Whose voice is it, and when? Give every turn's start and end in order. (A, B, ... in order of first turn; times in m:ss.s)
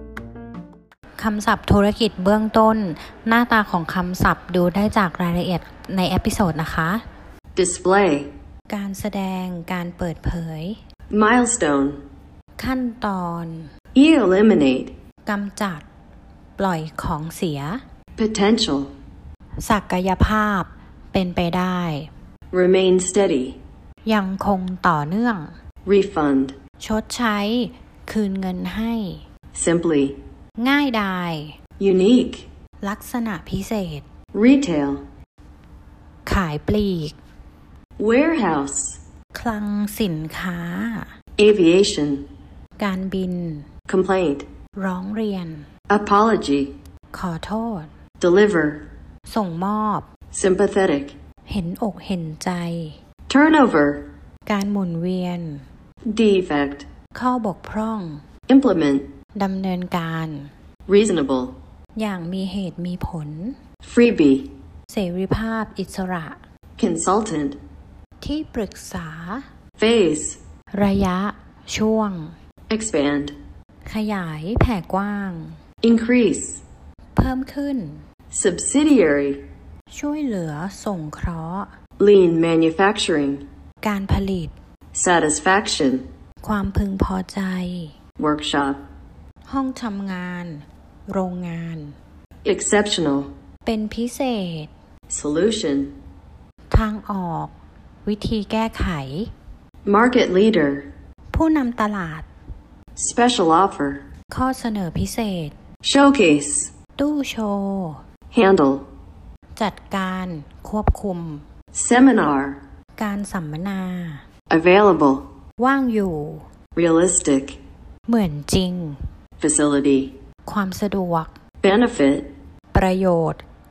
0:01.2-0:07.0 A
0:07.6-0:08.3 B
0:08.7-0:10.8 A
0:11.1-0:12.0 B
0:12.6-0:13.7 A
0:14.0-0:14.9 B
0:15.3-0:15.8 A
0:16.6-0:17.8 A
0:18.2-0:18.9 B
0:19.6-0:22.1 A
0:22.5-0:23.6 B
0:24.1-0:25.6 A
0:25.8-0:26.6 B
0:26.8-0:29.2 A
0:29.5-0:30.2 B
0:30.6-0:31.6 A
0:31.8-0:32.5 B
0:32.8-0:34.0 A
0:34.3-0:35.0 B
0:36.3-0:37.2 A
0:38.0-0:39.0 B
0:39.3-0:41.1 A
0:41.4-0:42.3 B
0:42.8-0:43.7 A
0:43.9-0:44.5 B
0:44.8-0:45.7 A
0:45.9-0:46.8 B
0:47.1-0:47.9 A
0:48.2-0:48.8 B
0:49.3-0:50.1 A
0:50.3-0:51.1 B
0:51.5-0:53.0 A
0:53.3-0:54.1 B
0:54.5-0:55.6 A
0:56.1-0:56.9 B
0:57.1-0:58.2 A
0:58.5-0:59.1 B
0:59.4-1:00.5 A
1:00.9-1:01.6 B
1:02.0-1:03.6 A
1:03.8-1:04.5 B
1:04.9-1:06.4 A
1:06.8-1:07.6 B
1:08.2-1:09.4 A
1:09.8-1:10.4 B
1:10.8-1:12.4 A
1:12.7-1:13.4 B
1:13.9-1:15.6 A
1:15.8-1:16.6 B
1:17.2-1:18.0 A
1:18.3-1:19.4 B
1:19.9-1:21.7 A
1:22.0-1:23.4 B
1:23.8-1:24.5 A
1:24.9-1:26.0 B
1:26.4-1:28.0 A
1:28.2-1:28.8 B
1:29.5-1:32.0 A
1:32.4-1:33.3 B
1:33.6-1:34.7 A
1:35.1-1:35.9 B
1:36.7-1:37.5 A
1:38.0-1:39.3 A
1:39.9-1:40.9 B
1:41.3-1:42.3 A
1:43.0-1:44.0 B
1:44.3-1:45.6 A
1:45.8-1:46.7 B
1:47.0-1:48.0 A
1:48.3-1:48.9 B
1:49.6-1:51.5 A
1:51.7-1:52.6 B
1:53.0-1:54.2 A
1:54.5-1:55.3 B
1:55.6-1:56.5 A
1:56.8-1:57.6 B
1:58.1-1:59.0 A
1:59.4-2:00.2 B
2:00.5-2:01.4 A
2:01.6-2:02.3 B
2:02.7-2:03.4 A